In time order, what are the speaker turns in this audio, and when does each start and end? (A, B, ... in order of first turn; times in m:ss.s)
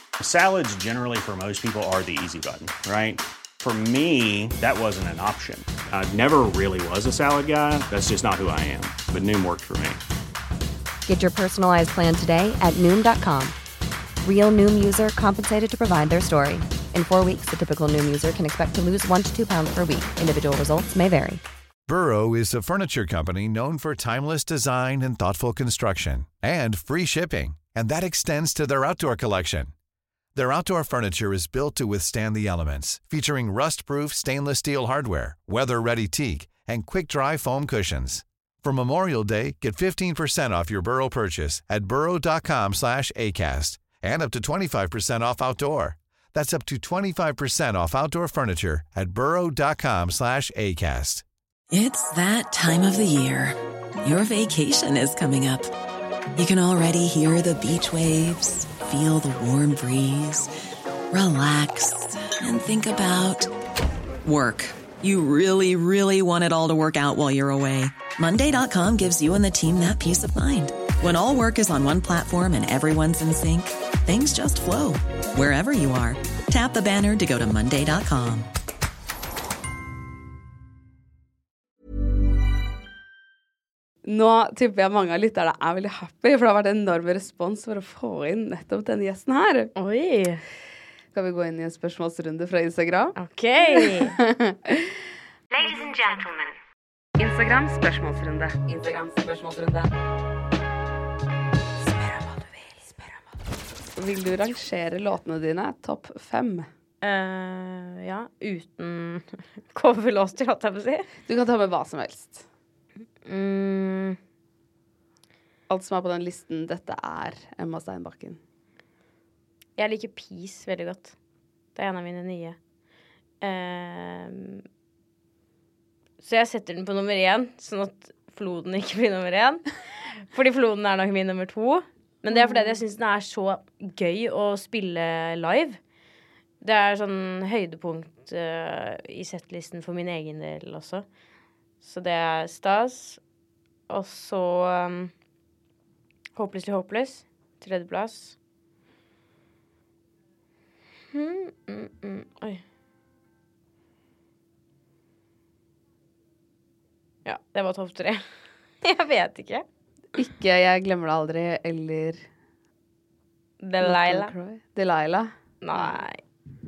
0:00.2-0:10.0 A
0:11.0-0:13.6 B
0:14.2-0:21.4 B
0:21.9-0:29.7 C
0:30.3-0:51.2 C
0:51.7-0:55.7 D
0:56.4-1:00.5 D
1:01.1-1:03.5 D
1:04.2-1:18.5 D
1:24.0-1:29.7 E
1:29.8-1:30.4 F
1:31.1-1:33.2 E
1:33.2-1:34.2 F
1:33.7-1:35.0 E
1:35.6-1:36.0 E
1:37.2-1:39.9 E
1:41.8-1:43.0 E
1:44.0-1:46.7 E
1:47.0-1:51.1 F
1:51.2-1:52.5 E
1:53.2-1:54.2 F
1:55.7-1:58.4 E
1:59.8-2:01.1 F
2:01.7-2:02.6 F
2:03.4-2:04.6 F
2:06.2-2:15.8 F
2:12.3-2:12.8 E
2:16.6-2:21.0 F
2:21.8-2:23.2 F
2:23.9-2:25.1 F
2:26.4-2:28.4 F
2:31.1-2:32.6 F
2:37.2-2:38.2 F
2:38.8-2:39.6 F
2:40.1-2:42.3 E
2:43.6-2:44.3 F
2:43.8-2:46.0 E
2:45.6-2:46.2 F